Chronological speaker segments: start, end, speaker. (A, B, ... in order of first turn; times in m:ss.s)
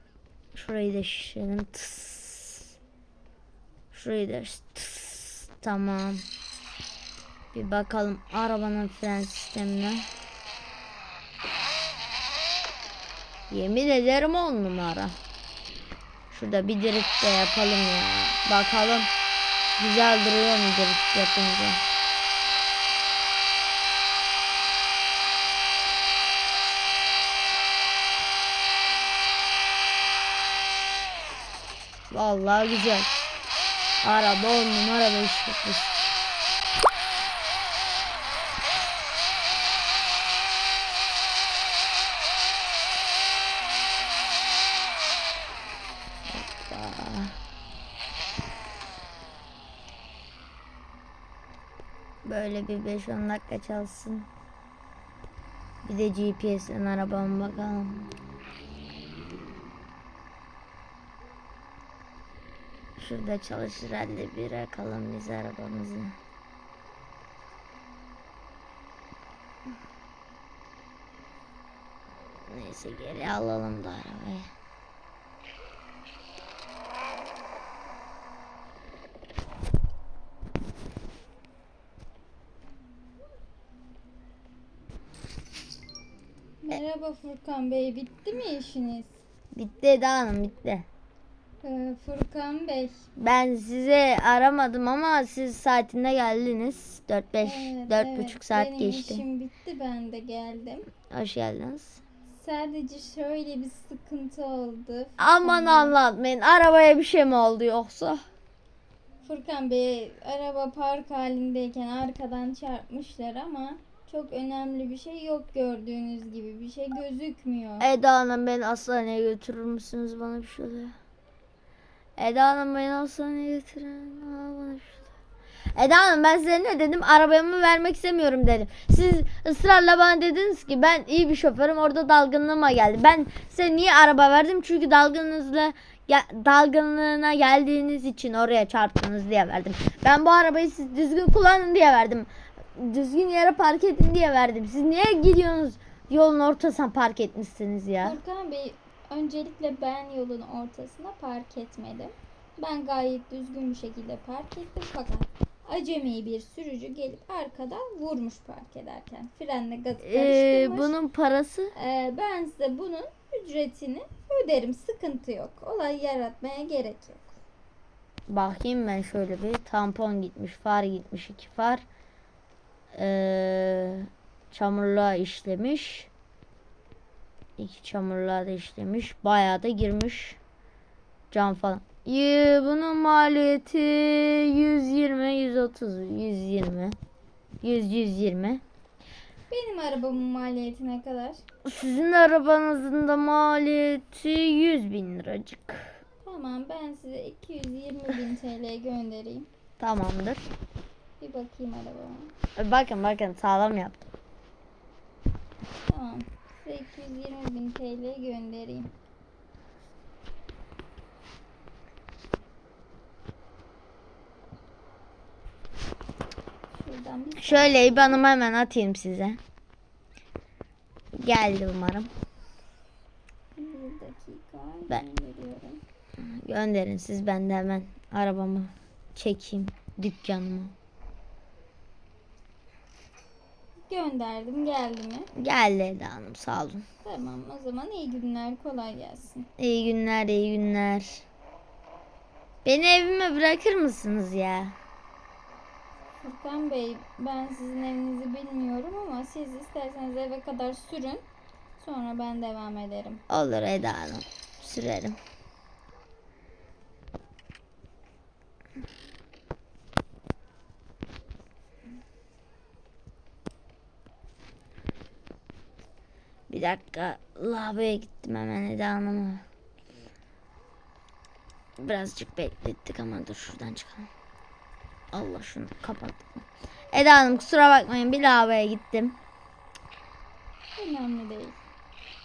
0:00.5-0:02.7 A
0:03.9-0:06.2 A
0:07.5-0:10.1 A
0:13.5-0:15.2 A
0:16.3-0:19.1 A
0:19.8-0:21.8 A
0:32.1-0:33.1 A
0:34.0-0:36.0 A
0:46.3-0:47.4 A
0:52.2-0:54.3 A
0:55.8-0:58.1 A
1:03.0-1:06.2 A
1:12.4-1:14.5 A
1:26.6-1:29.2 B
1:29.5-1:30.9 A
1:31.6-1:33.1 B
1:33.2-1:39.2 A
1:37.4-1:40.9 B
1:41.1-1:42.0 A
1:42.3-1:46.0 B
1:45.2-1:48.2 A
1:49.2-1:57.9 B
1:57.8-2:00.9 A
2:02.2-2:05.1 A
2:05.8-2:28.2 A
2:28.0-2:40.9 B
2:40.0-2:41.7 A
2:41.7-2:47.4 B
2:48.3-2:51.8 A
2:53.0-2:56.1 A
2:57.6-3:00.4 A
3:01.3-3:07.0 A
3:07.6-3:08.6 A
3:09.5-3:11.4 B
3:11.6-3:16.0 A
3:16.2-3:19.5 B
3:19.8-3:20.4 A
3:21.2-3:22.3 B
3:22.6-3:24.0 A
3:25.9-3:28.9 B
3:36.8-3:38.2 B
3:37.4-3:39.4 A
3:41.2-3:42.1 A
3:43.6-3:45.8 B
3:46.2-3:50.7 A
3:53.9-3:55.3 B
3:55.4-3:56.8 A
3:57.0-3:59.5 B
3:59.6-4:01.2 A
4:02.6-4:04.8 A
4:06.2-4:11.3 B
4:11.8-4:13.2 B
4:13.3-4:15.2 A
4:26.5-4:29.4 A
4:31.8-4:34.1 A
4:35.1-4:39.2 A
4:40.8-4:41.6 B